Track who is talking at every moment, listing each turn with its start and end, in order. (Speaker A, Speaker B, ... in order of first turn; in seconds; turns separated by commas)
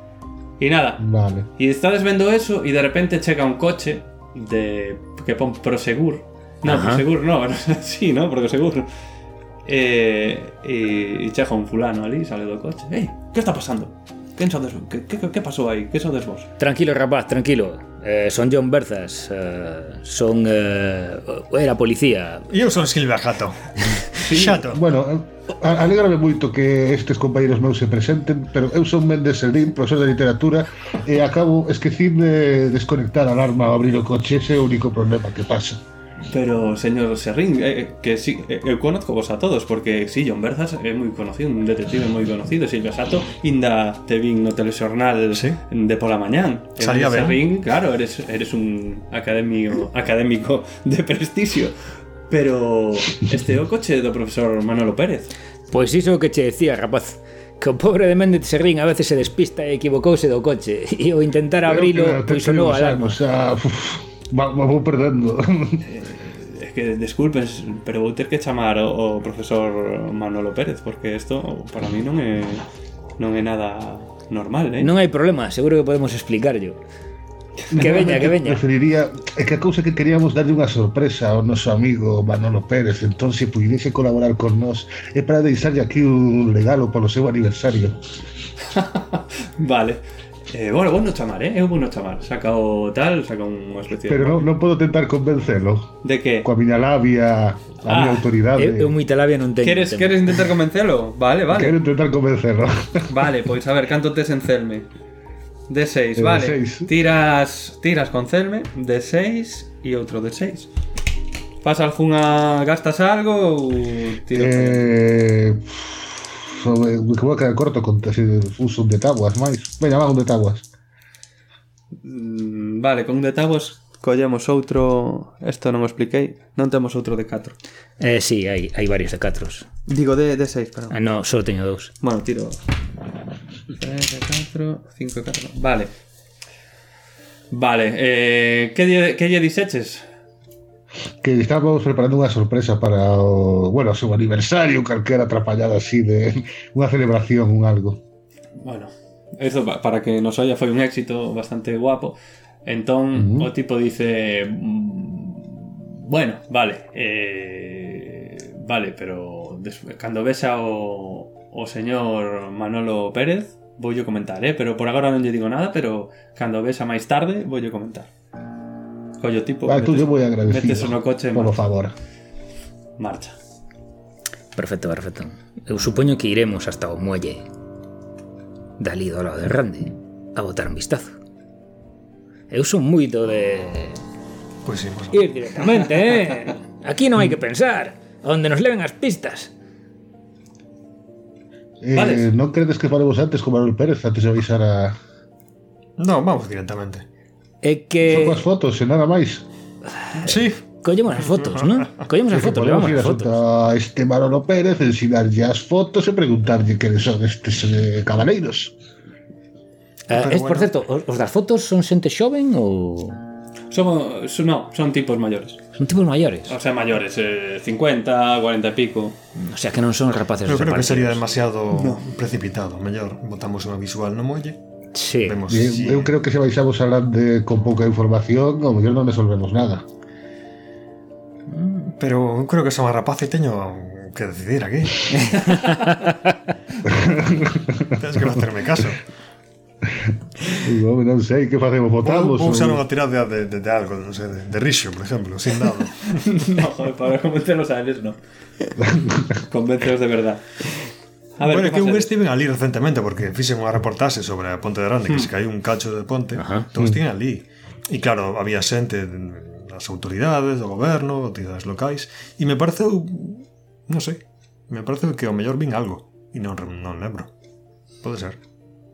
Speaker A: 0.6-8.9, Speaker B: 1.0-1.5, Speaker C: 6.7-7.1, Speaker A: 9.7-16.5, Speaker C: 16.6-22.5, Speaker D: 22.5-24.8, Speaker A: 24.2-24.6, Speaker B: 24.7-35.8, Speaker A: 36.3-51.8, Speaker D: 45.3-45.6, Speaker D: 46.8-47.4, Speaker A: 52.3-55.4, Speaker C: 55.7-63.2, Speaker B: 61.6-65.8, Speaker A: 65.8-72.6, Speaker A: 73.2-74.9, Speaker C: 74.8-76.8, Speaker B: 77.7-88.0, Speaker C: 77.7-78.6, Speaker A: 88.7-94.5, Speaker B: 94.1-99.0, Speaker A: 96.0-96.5, Speaker A: 97.8-98.3, Speaker C: 98.6-100.5, Speaker A: 99.6-101.8, Speaker B: 101.5-103.1, Speaker A: 103.1-104.9, Speaker A: 105.7-110.7, Speaker B: 106.2-106.9, Speaker A: 111.6-114.9, Speaker B: 114.3-120.7, Speaker A: 122.0-127.6, Speaker C: 128.0-129.7, Speaker A: 129.9-131.0, Speaker C: 130.9-131.9, Speaker A: 132.0-132.6, Speaker A: 133.7-135.9, Speaker A: 137.5-140.1, Speaker B: 141.2-148.0, Speaker A: 148.6-168.1, Speaker B: 153.2-153.5, Speaker A: 169.2-171.6, Speaker B: 169.7-171.9, Speaker A: 173.0-173.3, Speaker C: 174.6-177.5, Speaker C: 178.8-181.2, Speaker C: 182.5-184.0, Speaker D: 184.7-185.3, Speaker C: 185.1-189.5, Speaker B: 191.8-195.0, Speaker A: 191.9-192.3, Speaker D: 196.0-197.1, Speaker C: 197.6-198.4, Speaker B: 198.0-199.4, Speaker C: 200.0-203.3, Speaker D: 200.2-200.6, Speaker D: 201.2-201.9, Speaker B: 202.3-208.8, Speaker C: 210.1-213.2, Speaker D: 210.1-210.7, Speaker A: 213.7-215.6, Speaker C: 215.8-216.6, Speaker A: 216.5-219.2, Speaker C: 219.4-221.2, Speaker D: 220.5-224.6, Speaker A: 221.7-222.1, Speaker C: 224.9-225.4, Speaker D: 225.2-226.1, Speaker B: 225.5-229.8, Speaker C: 231.5-231.9, Speaker D: 231.9-235.6, Speaker C: 235.2-236.1, Speaker B: 236.8-237.9, Speaker D: 237.9-239.0, Speaker B: 240.0-242.8, Speaker D: 242.0-246.3, Speaker A: 246.1-248.7, Speaker B: 248.8-249.4, Speaker A: 249.4-250.7, Speaker A: 251.4-252.1, Speaker D: 251.4-267.3, Speaker C: 256.4-256.7, Speaker D: 268.0-268.4